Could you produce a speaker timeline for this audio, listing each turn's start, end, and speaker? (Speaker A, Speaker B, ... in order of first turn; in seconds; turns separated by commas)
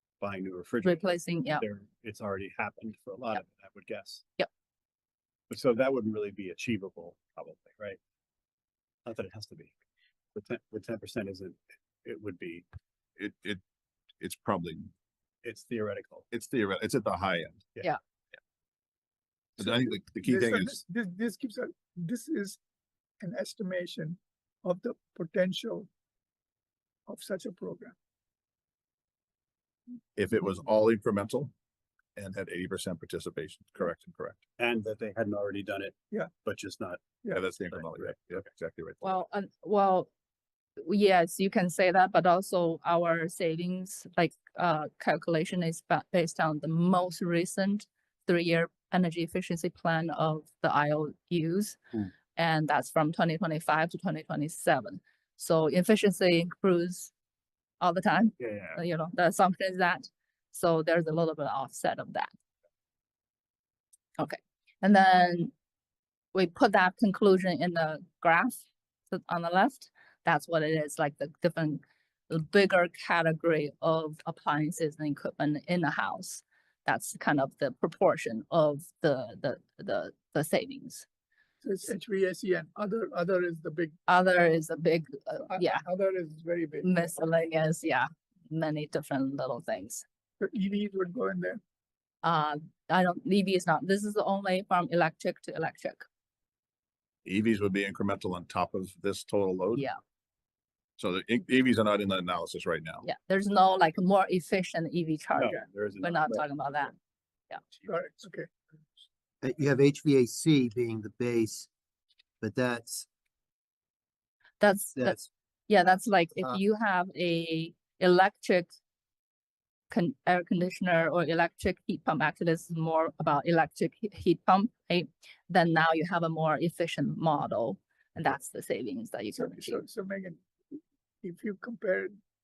Speaker A: 0.2-1.0, Speaker B: 0.8-1.6, Speaker A: 1.6-4.3, Speaker A: 5.5-8.0, Speaker A: 9.0-9.7, Speaker A: 10.3-12.6, Speaker C: 13.2-13.6, Speaker C: 14.2-14.9, Speaker A: 15.4-16.2, Speaker C: 16.3-17.7, Speaker C: 19.6-20.8, Speaker D: 19.6-22.6, Speaker D: 23.2-25.9, Speaker D: 27.1-27.9, Speaker C: 30.1-31.5, Speaker C: 32.2-34.4, Speaker A: 34.6-37.0, Speaker C: 37.3-39.0, Speaker A: 37.7-38.4, Speaker B: 39.0-40.1, Speaker B: 40.8-51.8, Speaker B: 52.3-57.1, Speaker B: 57.8-62.3, Speaker A: 58.4-58.8, Speaker B: 64.2-65.5, Speaker B: 66.3-81.0, Speaker D: 81.6-84.0, Speaker B: 84.1-85.8, Speaker D: 85.4-87.1, Speaker B: 86.8-90.0, Speaker D: 90.4-91.6, Speaker B: 92.2-96.0, Speaker C: 97.2-99.8, Speaker C: 101.0-103.0, Speaker B: 103.0-106.9, Speaker A: 105.3-106.4, Speaker D: 107.8-108.5, Speaker E: 109.4-111.7, Speaker E: 112.4-113.1, Speaker B: 114.6-118.7, Speaker E: 114.9-115.3, Speaker B: 119.9-129.8, Speaker D: 129.3-132.2